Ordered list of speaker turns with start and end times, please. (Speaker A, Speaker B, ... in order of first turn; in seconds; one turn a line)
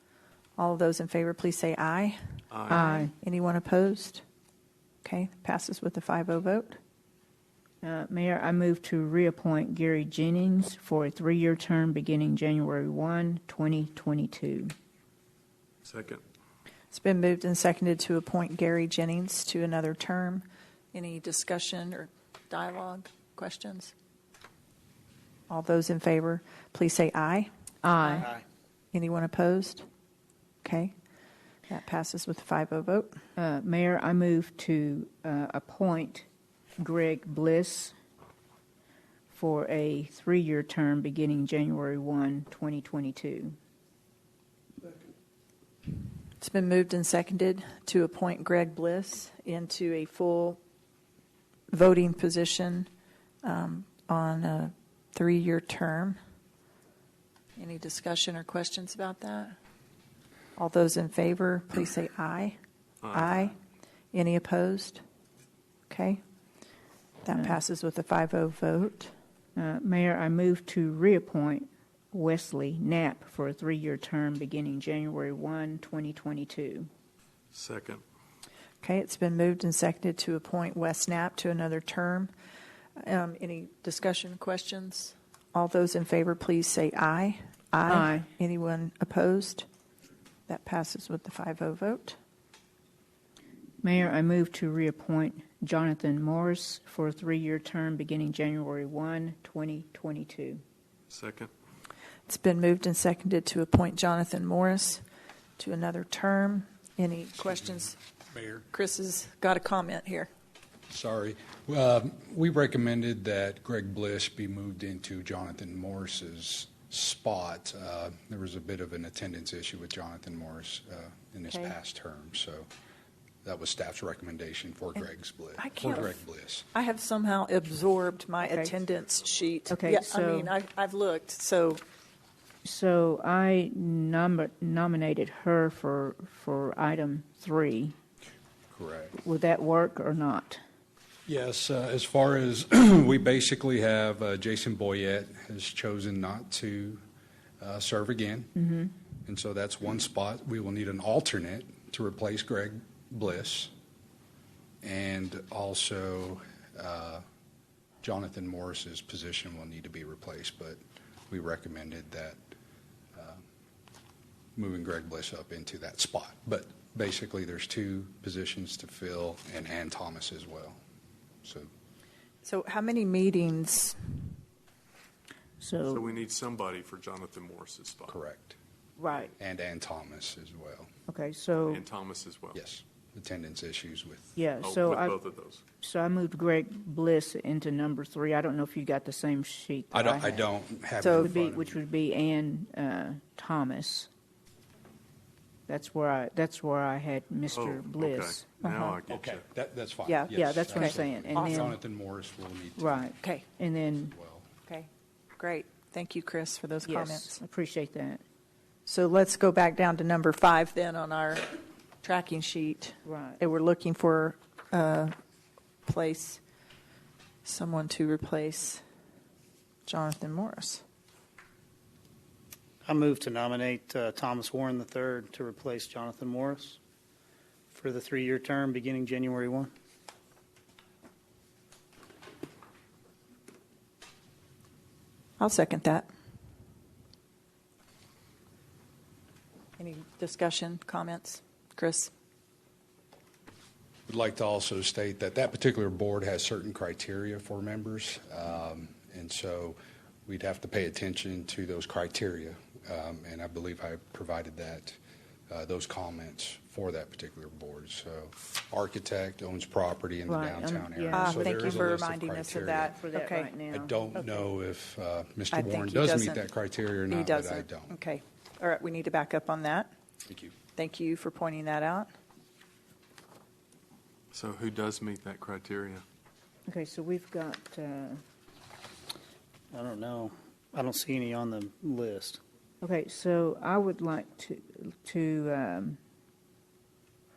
Speaker A: 0.6-4.2
Speaker B: 2.5-2.9
Speaker C: 2.7-3.1
Speaker A: 5.0-6.8
Speaker C: 7.8-14.7
Speaker B: 15.8-16.2
Speaker A: 16.9-23.9
Speaker A: 25.5-27.5
Speaker C: 27.8-28.3
Speaker D: 28.2-28.4
Speaker A: 28.9-29.9
Speaker A: 30.6-30.9
Speaker A: 31.7-33.2
Speaker C: 33.4-36.2
Speaker C: 36.8-37.9
Speaker C: 39.3-43.6
Speaker A: 46.4-50.6
Speaker A: 51.7-52.9
Speaker A: 53.4-56.2
Speaker A: 57.6-59.6
Speaker A: 60.6-62.6
Speaker B: 63.0-63.5
Speaker A: 63.1-63.6
Speaker A: 64.1-65.0
Speaker A: 65.9-66.2
Speaker A: 67.2-69.1
Speaker C: 69.6-76.9
Speaker B: 77.5-78.0
Speaker A: 78.8-82.3
Speaker A: 83.0-89.7
Speaker C: 87.9-88.3
Speaker A: 90.5-92.2
Speaker C: 93.8-100.6
Speaker B: 101.1-101.5
Speaker A: 102.3-105.0
Speaker A: 105.6-108.0
Speaker E: 108.3-108.7
Speaker A: 108.7-110.3
Speaker E: 110.9-122.7
Speaker E: 123.5-126.7
Speaker A: 125.6-126.2
Speaker A: 126.7-131.8
Speaker C: 129.7-130.5
Speaker C: 132.6-137.9
Speaker E: 138.7-139.2
Speaker C: 139.2-140.6
Speaker E: 141.3-147.0
Speaker E: 147.6-148.6
Speaker E: 149.3-153.7
Speaker E: 154.8-157.2
Speaker E: 158.0-160.8
Speaker E: 161.3-162.4
Speaker E: 163.2-163.4
Speaker E: 164.6-170.8
Speaker E: 171.4-171.7
Speaker A: 172.4-174.2
Speaker C: 175.6-176.1
Speaker B: 175.9-178.2
Speaker E: 178.1-178.6
Speaker C: 179.0-179.3
Speaker E: 179.4-180.9
Speaker C: 181.1-181.8
Speaker B: 181.6-182.6
Speaker E: 182.5-184.4
Speaker C: 184.4-185.2
Speaker B: 184.6-185.6
Speaker C: 185.8-190.4
Speaker E: 189.9-191.8
Speaker A: 191.0-191.3
Speaker C: 191.2-194.1
Speaker C: 195.7-198.5
Speaker B: 197.5-199.4
Speaker A: 198.6-199.0
Speaker E: 199.1-203.1
Speaker A: 200.1-201.7
Speaker C: 200.3-201.8
Speaker C: 202.8-204.1
Speaker E: 204.0-204.5
Speaker A: 204.7-207.4
Speaker C: 206.8-208.2
Speaker A: 208.9-215.1
Speaker C: 213.1-213.4
Speaker A: 215.9-216.4
Speaker A: 217.4-218.8
Speaker A: 219.9-220.8
Speaker D: 222.8-226.8
Speaker D: 227.7-229.7
Speaker A: 235.4-236.1
Speaker A: 239.8-242.1
Speaker E: 244.1-255.0
Speaker E: 255.5-263.0
Speaker C: 260.3-261.9
Speaker A: 261.1-263.5
Speaker C: 262.9-264.0
Speaker E: 263.7-268.0
Speaker A: 265.5-266.5
Speaker A: 267.1-269.9
Speaker E: 270.3-270.6
Speaker A: 270.8-272.1
Speaker B: 274.3-276.0
Speaker C: 276.7-278.2
Speaker D: 279.7-282.4
Speaker C: 282.8-286.0